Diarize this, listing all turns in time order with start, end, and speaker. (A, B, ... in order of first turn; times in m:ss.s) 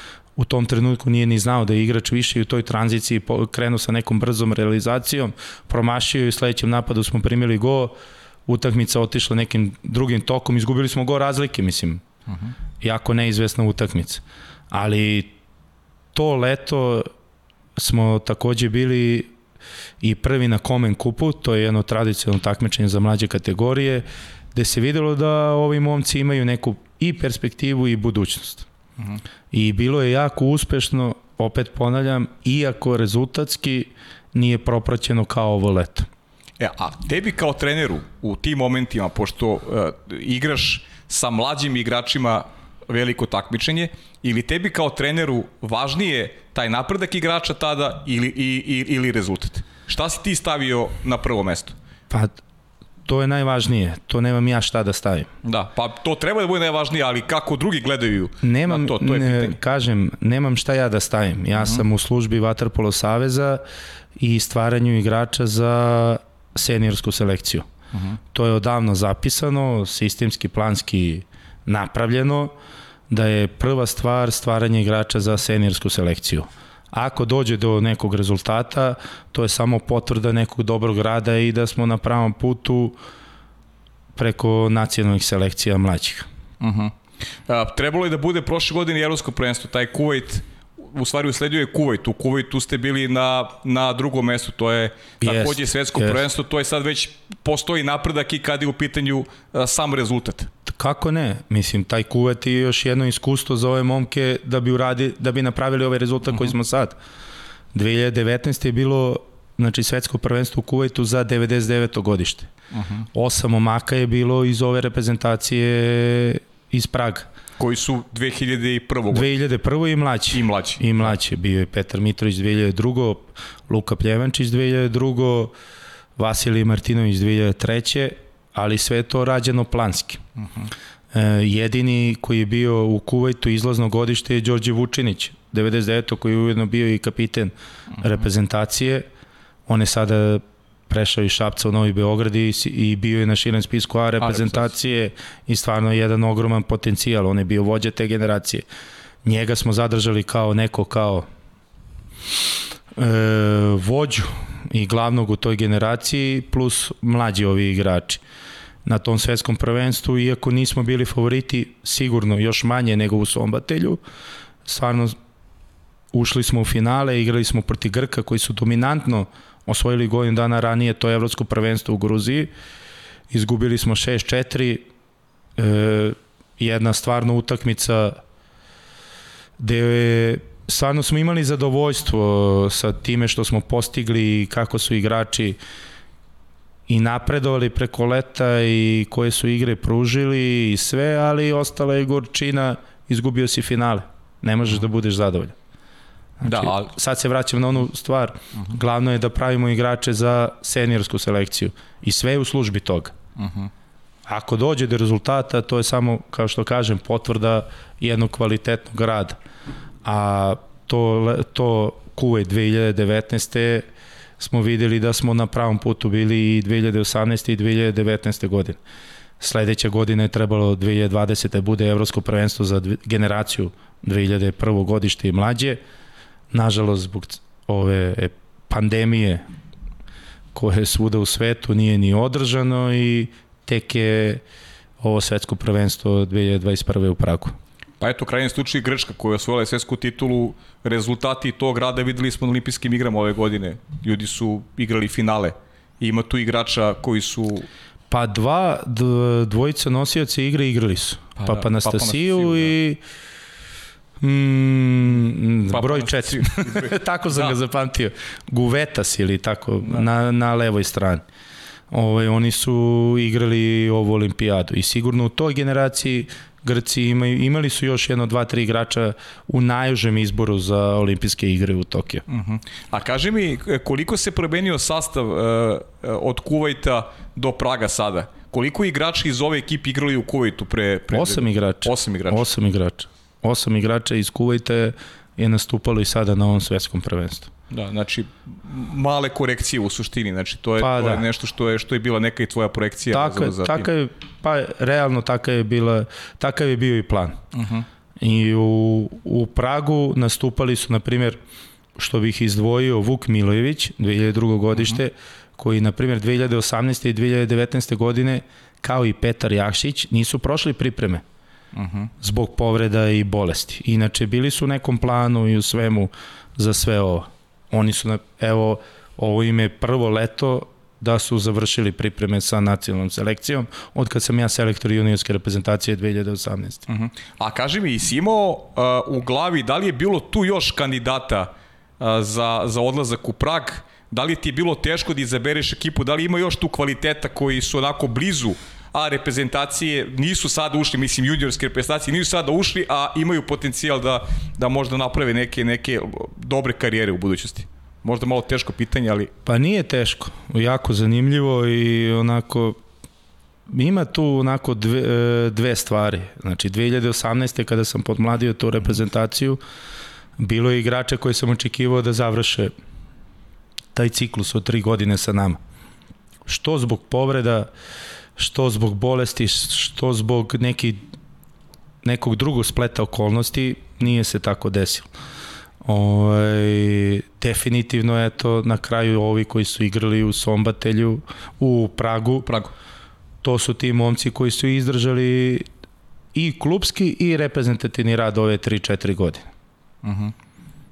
0:00.4-0:12.0 A
0:12.8-0:15.3 A
0:16.1-0:17.1 A
0:17.8-0:19.3 A
0:20.0-0:28.6 A
0:29.5-0:36.1 A
0:36.6-0:51.8 B
0:52.1-0:52.3 A
0:53.0-0:55.3 A
0:55.4-0:59.6 B
0:58.4-1:03.6 A
1:04.2-1:07.7 A
1:08.3-1:12.5 A
1:13.1-1:23.0 A
1:24.1-1:26.3 A
1:26.6-1:26.9 B
1:27.5-1:40.5 B
1:35.2-1:36.2 A
1:40.7-1:47.0 A
1:47.7-1:52.5 A
1:52.7-1:53.0 B
1:53.1-1:57.3 A
1:57.6-1:59.3 B
1:59.1-2:05.5 A
2:00.3-2:01.0 B
2:06.2-2:10.2 A
2:10.4-2:10.7 B
2:11.1-2:19.0 A
2:19.7-2:28.6 A
2:24.3-2:24.6 B
2:29.2-2:31.3 A
2:32.9-2:38.2 A
2:38.8-2:44.0 A
2:44.6-2:45.2 A
2:46.1-2:52.5 A
2:53.3-2:54.9 A
2:55.6-2:58.2 A
2:59.6-3:05.6 A
3:06.9-3:15.5 A
3:16.4-3:23.1 A
3:16.4-3:16.9 B
3:23.4-3:23.7 B
3:24.3-3:29.4 A
3:30.0-3:33.8 A
3:34.4-3:38.8 A
3:39.4-3:45.8 A
3:46.5-3:49.4 A
3:50.5-3:54.4 A
3:55.0-3:57.5 A
3:58.0-4:07.7 B
4:08.1-4:13.0 A
4:11.4-4:12.7 B
4:14.2-4:21.2 A
4:15.7-4:17.5 B
4:21.9-4:32.2 A
4:32.3-4:42.5 B
4:41.1-4:47.5 A
4:47.7-4:53.8 B
4:50.8-4:51.2 A
4:53.1-4:57.4 A
4:57.5-4:57.8 B
4:58.2-5:01.4 A
5:02.0-5:11.2 A
5:11.7-5:12.1 B
5:12.2-5:26.8 A
5:26.9-5:49.3 B
5:49.4-5:52.8 A
5:53.7-5:59.6 A
6:00.4-6:02.7 A
6:03.9-6:05.6 A
6:06.4-6:07.7 A
6:08.4-6:11.0 A
6:12.0-6:15.1 A
6:15.8-6:22.5 A
6:22.4-6:22.7 B
6:23.4-6:25.7 A
6:26.3-6:29.4 A
6:30.0-6:30.3 B